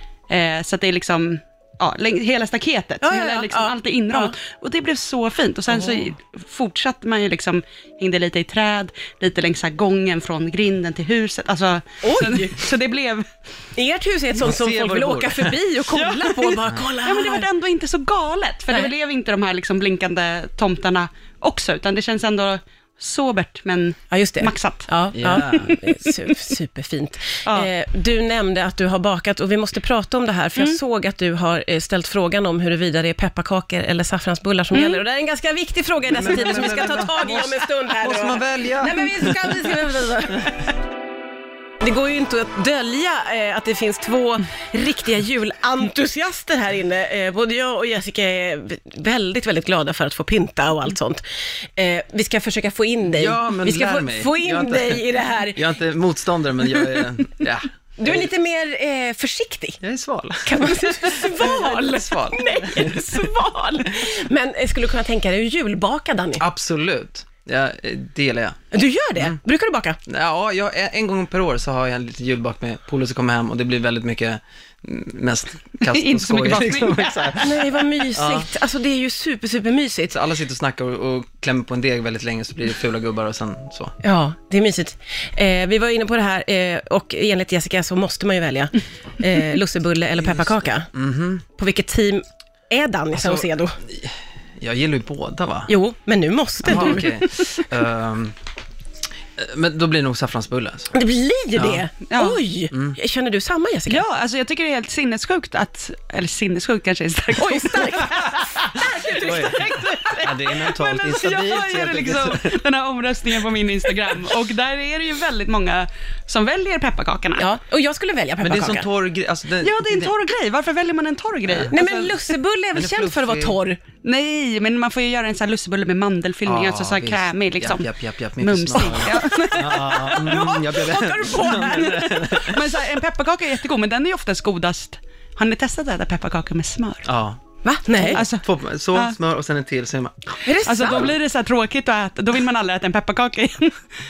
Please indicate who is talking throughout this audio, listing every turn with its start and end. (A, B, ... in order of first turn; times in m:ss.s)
0:00.3-0:13.3 A
0:03.0-0:04.3 B
0:12.0-0:12.6 B
0:13.8-0:17.4 B
0:14.4-0:15.6 C
0:15.9-0:26.4 A
0:24.1-0:40.6 B
0:25.1-0:25.8 C
0:34.7-0:35.0 A
0:36.1-0:39.8 C
0:41.8-0:51.2 B
0:51.8-0:55.6 B
0:53.1-0:58.3 C
0:58.0-0:59.8 B
0:59.8-1:03.2 C
1:00.4-1:06.4 B
1:06.4-1:08.6 C
1:08.7-1:10.0 B
1:10.1-1:17.6 C
1:15.8-1:17.4 A
1:17.4-1:20.1 B
1:18.2-1:18.5 C
1:20.1-1:23.9 C
1:24.0-1:30.9 B
1:30.2-1:31.4 C
1:31.6-1:33.8 B
1:33.1-1:35.7 C
1:35.7-1:37.6 B
1:36.6-1:38.4 C
1:39.4-1:40.9 C
1:40.9-1:44.0 B
1:41.6-1:41.9 C
1:42.1-1:42.4 A
1:43.9-1:57.4 A
1:47.4-1:49.7 B
1:49.1-1:49.7 C
1:50.2-1:52.6 C
1:57.4-1:58.9 B
1:58.4-2:00.1 C
1:59.6-2:02.1 A
2:01.7-2:03.8 B
2:02.7-2:03.6 C
2:04.0-2:07.9 A
2:06.4-2:12.6 C
2:08.4-2:10.5 A
2:09.1-2:12.4 B
2:11.7-2:17.1 A
2:17.0-2:17.4 C
2:17.6-2:18.2 B
2:18.0-2:21.1 C
2:18.1-2:19.2 A
2:20.4-2:21.2 B
2:20.6-2:23.8 A